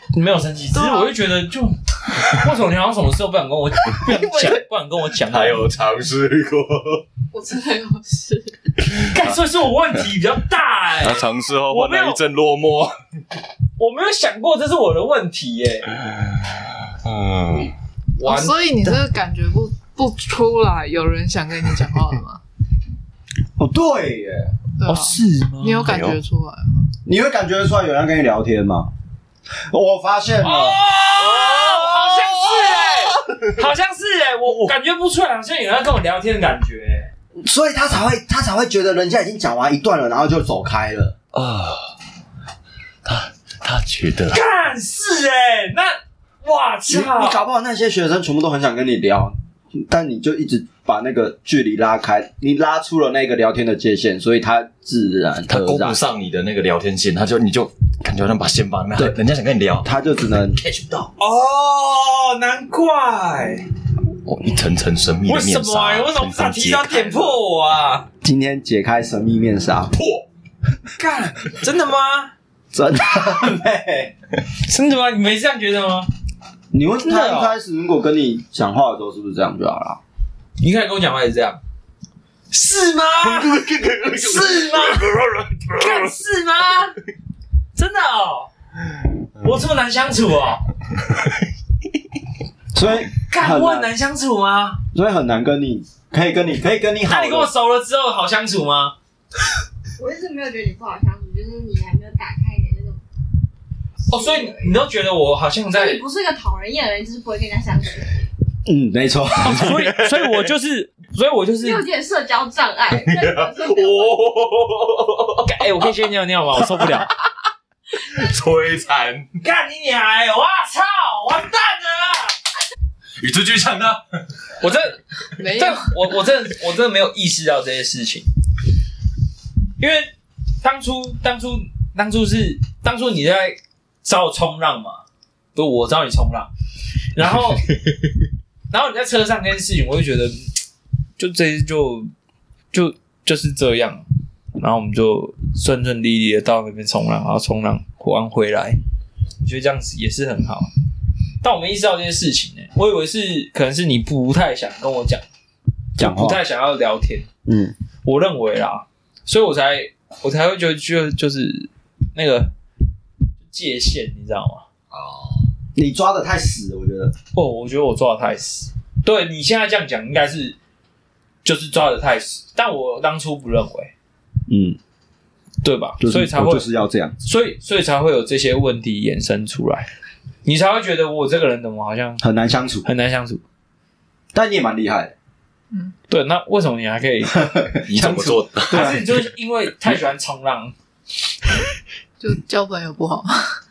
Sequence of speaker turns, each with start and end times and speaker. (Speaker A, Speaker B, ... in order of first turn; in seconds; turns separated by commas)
Speaker A: 0.1-5.7, Speaker B: 0.7-1.1, Speaker C: 5.2-7.0, Speaker B: 7.3-8.8, Speaker A: 8.8-12.2, Speaker C: 11.0-12.9, Speaker A: 13.8-15.9, Speaker C: 16.0-17.7, Speaker A: 18.2-18.7, Speaker B: 18.2-22.4, Speaker D: 23.6-24.6, Speaker B: 24.8-26.9, Speaker A: 24.9-26.0, Speaker C: 25.8-26.2, Speaker D: 27.1-28.9, Speaker D: 29.6-30.8, Speaker A: 30.4-37.1, Speaker D: 37.4-41.1, Speaker C: 41.3-41.9, Speaker C: 43.0-44.4, Speaker A: 44.3-47.4, Speaker D: 46.9-56.0, Speaker C: 55.5-59.9, Speaker D: 59.8-60.6, Speaker C: 60.6-61.1, Speaker A: 61.2-63.7, Speaker C: 64.2-67.4, Speaker A: 65.3-68.1, Speaker D: 68.2-69.9, Speaker C: 69.9-70.2, Speaker A: 71.0-72.3, Speaker D: 72.7-74.1, Speaker A: 74.6-76.1, Speaker D: 76.7-80.0, Speaker A: 77.0-77.5, Speaker A: 80.6-81.6, Speaker A: 82.5-87.0, Speaker C: 83.2-86.1, Speaker A: 87.8-88.5, Speaker A: 89.4-90.6, Speaker D: 92.7-93.9, Speaker A: 93.2-94.8, Speaker D: 94.9-97.5, Speaker A: 97.0-99.0, Speaker E: 100.0-103.0, Speaker E: 104.1-104.8, Speaker A: 104.1-106.0, Speaker E: 105.7-108.1, Speaker D: 108.7-109.8, Speaker A: 109.4-111.9, Speaker C: 109.6-110.4, Speaker E: 111.6-114.2, Speaker C: 112.9-115.5, Speaker A: 115.4-117.1, Speaker C: 118.0-119.3, Speaker A: 119.4-122.4, Speaker C: 123.2-124.0, Speaker A: 124.6-128.3, Speaker B: 125.4-125.9, Speaker A: 129.8-130.1, Speaker A: 130.6-135.0, Speaker A: 135.6-136.5, Speaker A: 137.1-137.7, Speaker A: 138.7-140.5, Speaker A: 141.2-142.1, Speaker A: 142.7-144.1, Speaker A: 144.6-148.8, Speaker A: 149.4-150.7, Speaker A: 151.4-155.2, Speaker D: 156.0-156.4, Speaker A: 156.0-157.3, Speaker D: 157.5-157.8, Speaker A: 158.0-162.5, Speaker A: 163.4-164.7, Speaker C: 164.9-165.5, Speaker D: 165.8-167.1, Speaker A: 167.3-170.6, Speaker A: 171.4-173.9, Speaker D: 174.5-174.8, Speaker A: 175.6-176.7, Speaker D: 176.0-177.2, Speaker A: 177.2-179.9, Speaker A: 180.4-182.2, Speaker D: 182.2-182.9, Speaker A: 182.8-183.4, Speaker D: 184.3-185.1, Speaker A: 186.1-187.5, Speaker D: 187.3-189.1, Speaker C: 187.9-189.2, Speaker A: 188.7-190.7, Speaker B: 192.2-193.6